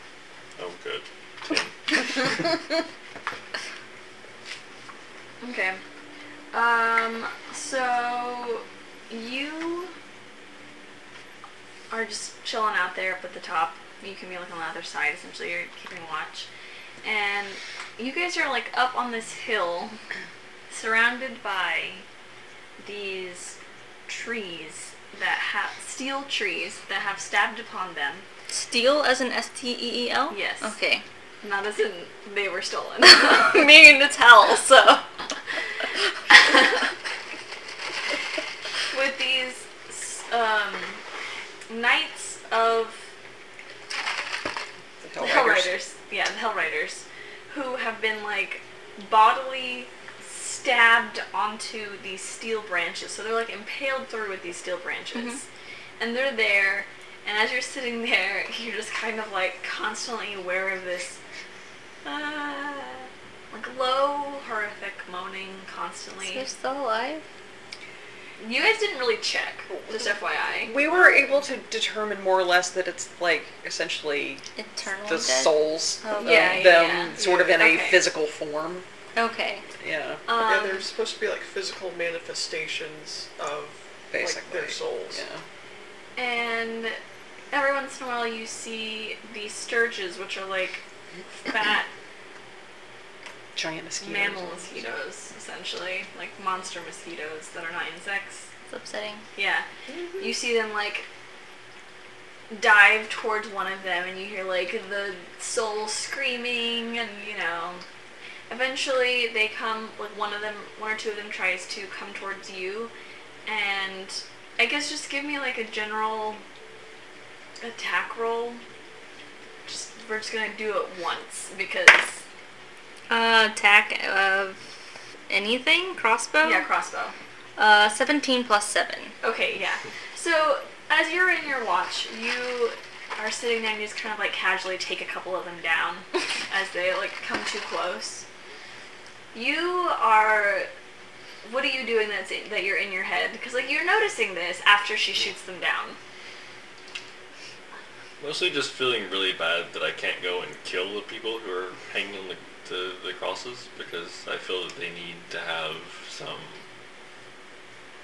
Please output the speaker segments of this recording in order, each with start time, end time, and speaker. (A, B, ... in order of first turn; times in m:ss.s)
0:00.6-0:02.4 A
0:05.4-0:05.8 B
0:06.5-0:09.9 B
0:11.9-0:16.5 B
0:17.0-0:20.0 B
0:20.7-0:22.0 B
0:22.8-0:28.3 B
0:28.5-0:31.0 C
0:30.3-0:30.8 B
0:31.4-0:33.7 B
0:33.0-0:35.0 C
0:36.3-0:36.6 B
0:38.9-0:41.0 B
0:41.7-0:43.1 B
0:45.0-0:45.8 D
0:45.2-0:55.4 B
0:55.1-0:55.4 C
0:56.0-1:01.2 B
1:02.0-1:06.4 B
1:06.2-1:07.2 C
1:08.4-1:11.3 B
1:09.7-1:14.4 D
1:14.6-1:16.8 C
1:15.0-1:18.9 D
1:16.2-1:18.1 B
1:19.2-1:19.6 C
1:19.8-1:20.3 D
1:20.3-1:20.9 B
1:20.4-1:25.2 E
1:24.1-1:25.4 D
1:26.2-1:27.0 B
1:27.5-1:30.8 B
1:31.4-1:31.9 B
1:33.6-1:34.9 D
1:34.0-1:38.5 B
1:38.7-1:39.2 C
1:39.4-1:39.7 B
1:39.9-1:40.4 E
1:40.2-1:41.1 B
1:42.5-1:47.8 B
1:48.5-1:52.9 B
1:53.5-1:56.4 B
1:57.6-1:58.6 B
1:59.7-2:02.2 B
2:03.1-2:04.6 C
2:05.3-2:06.7 C
2:06.4-2:07.2 B
2:07.6-2:09.1 C
2:09.2-2:18.2 B
2:19.3-2:20.7 B
2:21.4-2:26.0 B
2:28.2-2:36.6 A